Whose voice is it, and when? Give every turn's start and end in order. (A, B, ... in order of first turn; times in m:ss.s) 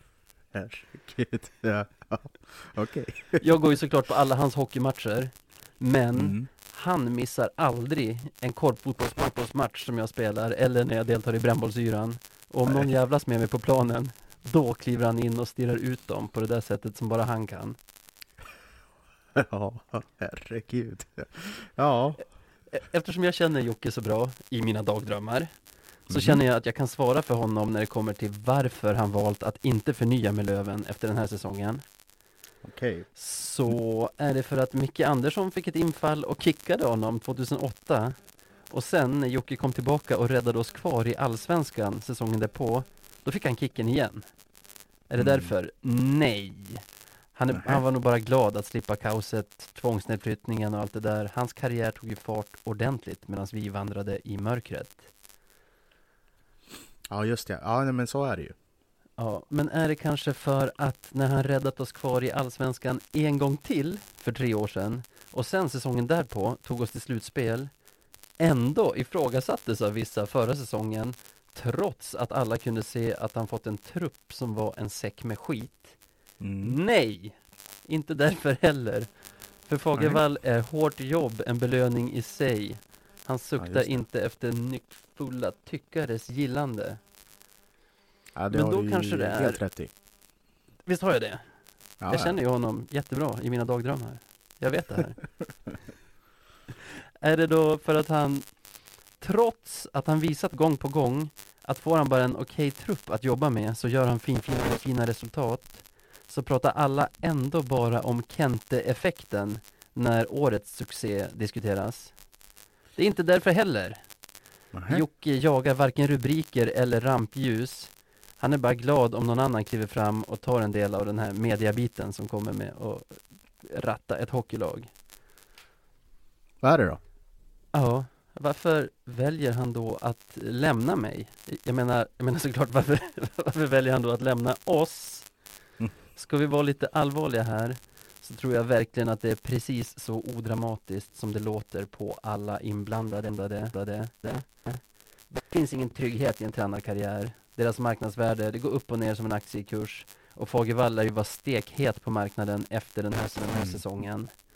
0:00.5-0:03.4 A
0:03.4-0:17.8 B
0:06.2-0:06.5 A
0:19.3-0:22.2 A
0:22.7-0:25.5 B
0:26.1-0:31.8 B
0:26.1-0:26.4 A
0:32.6-0:33.1 A
0:33.2-0:38.2 B
0:38.7-0:44.3 B
0:45.1-0:55.1 B
0:45.2-0:45.5 A
0:47.5-0:47.8 A
0:57.1-0:58.5 A
0:59.2-1:07.7 B
1:08.4-1:15.9 B
1:16.4-1:16.8 A
1:16.6-1:19.1 B
1:19.6-1:27.0 B
1:20.0-1:20.2 A
1:23.6-1:24.0 A
1:28.4-1:29.9 A
1:28.5-1:29.6 B
1:30.8-1:31.4 B
1:32.0-1:32.4 A
1:32.1-1:35.2 B
1:37.2-1:38.5 B
1:39.2-1:52.1 B
1:53.0-1:54.0 B
1:54.7-1:55.0 A
1:54.9-2:04.9 B
2:06.6-2:07.0 A
2:07.7-2:15.3 B
2:16.2-2:34.3 B
2:33.5-2:33.8 A